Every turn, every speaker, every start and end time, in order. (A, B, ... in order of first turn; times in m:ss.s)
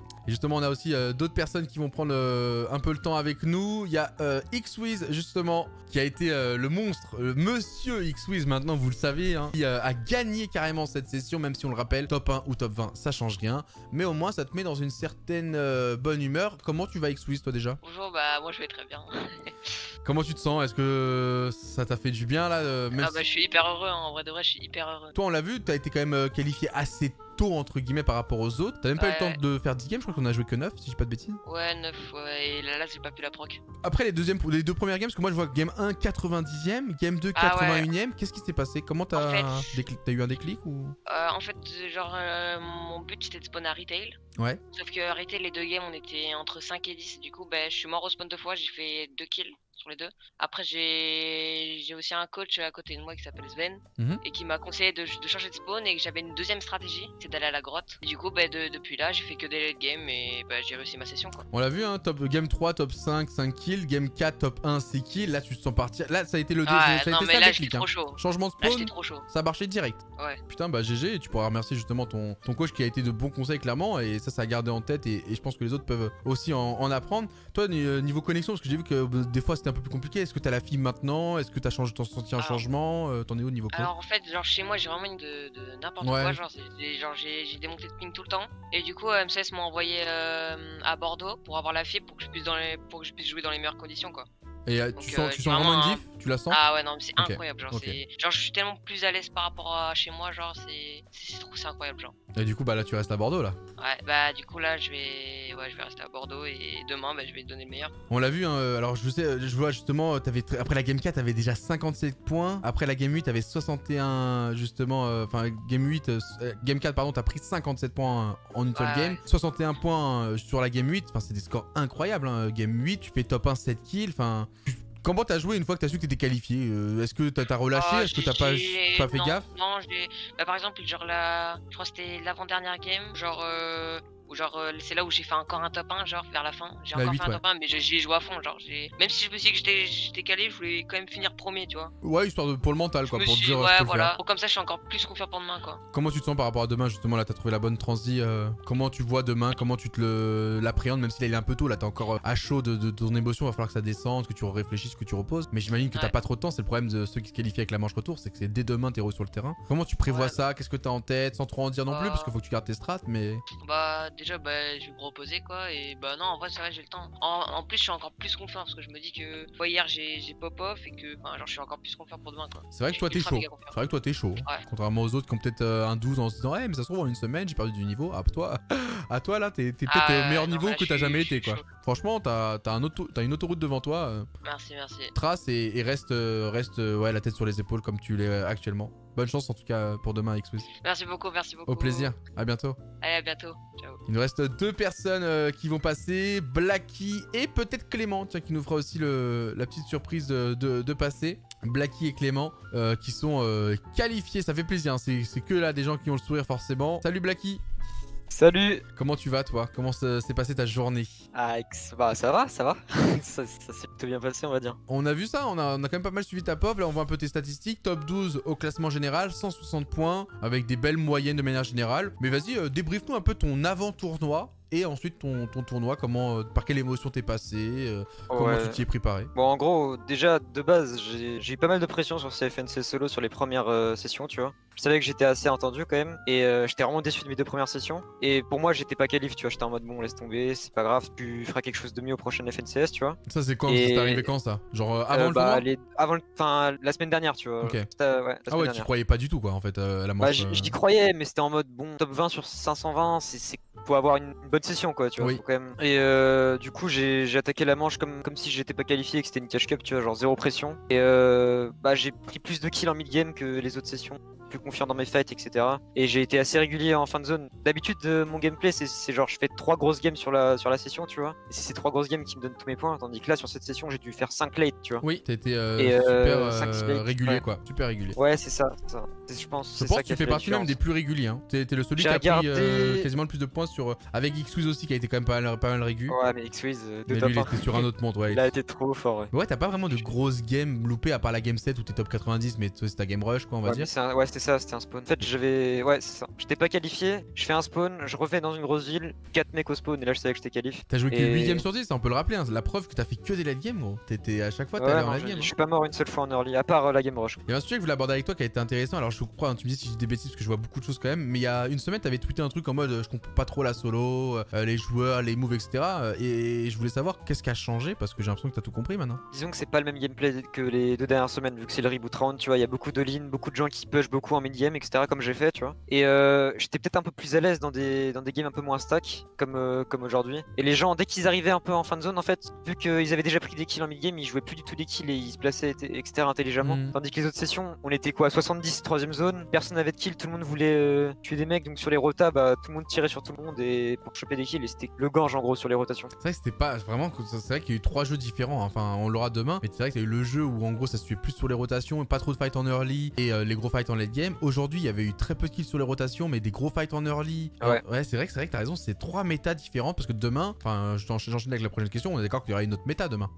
0:00.3-0:17.8 A
0:17.8-0:19.6 B
0:20.0-0:23.3 A
0:23.0-0:25.2 B
0:25.2-0:31.4 A
0:29.0-0:29.4 B
0:31.4-0:33.6 B
0:33.8-0:41.0 A
0:37.4-0:37.9 B
0:39.1-0:39.8 B
0:41.1-0:44.2 B
0:44.7-1:01.5 B
1:01.5-1:23.9 A
1:06.7-1:09.3 B
1:22.4-1:22.6 B
1:23.7-1:34.3 B
1:26.0-1:26.4 A
1:34.7-1:36.6 A
1:35.0-1:42.1 B
1:37.2-1:38.0 A
1:42.3-1:43.6 A
1:43.8-1:47.9 B
1:48.1-2:09.5 A
1:58.8-1:59.2 B
2:07.7-2:21.9 B
2:16.9-2:17.4 A
2:22.0-2:24.2 A
2:23.1-2:25.8 B
2:25.9-2:43.4 A
2:40.1-2:40.4 B
2:41.9-2:42.3 B
2:43.6-2:53.8 B
2:52.7-3:04.3 A
2:59.9-3:01.6 B
3:04.4-3:05.1 B
3:05.1-3:10.7 A
3:10.8-3:12.1 B
3:11.7-3:12.8 A
3:13.0-3:14.0 B
3:14.1-3:27.6 A
3:28.3-3:28.8 C
3:29.0-3:31.2 A
3:31.3-3:34.8 C
3:34.9-3:49.3 A
3:48.3-3:48.8 C
3:49.3-4:04.3 C
4:03.3-4:05.6 A
4:05.1-4:08.9 C
4:07.6-4:07.9 A
4:08.5-4:10.8 A
4:10.2-4:35.0 C
4:35.0-4:38.2 A
4:35.8-4:37.4 C
4:38.2-4:40.8 C
4:39.8-4:46.2 A
4:42.0-4:43.1 C
4:46.1-4:49.3 C
4:47.1-4:48.5 A
4:49.3-4:53.9 A
4:53.6-5:01.6 C
5:00.9-5:05.5 A
5:04.8-5:07.4 C
5:07.5-5:19.2 A
5:19.3-5:46.1 C
5:36.6-5:37.0 A
5:46.2-6:03.3 A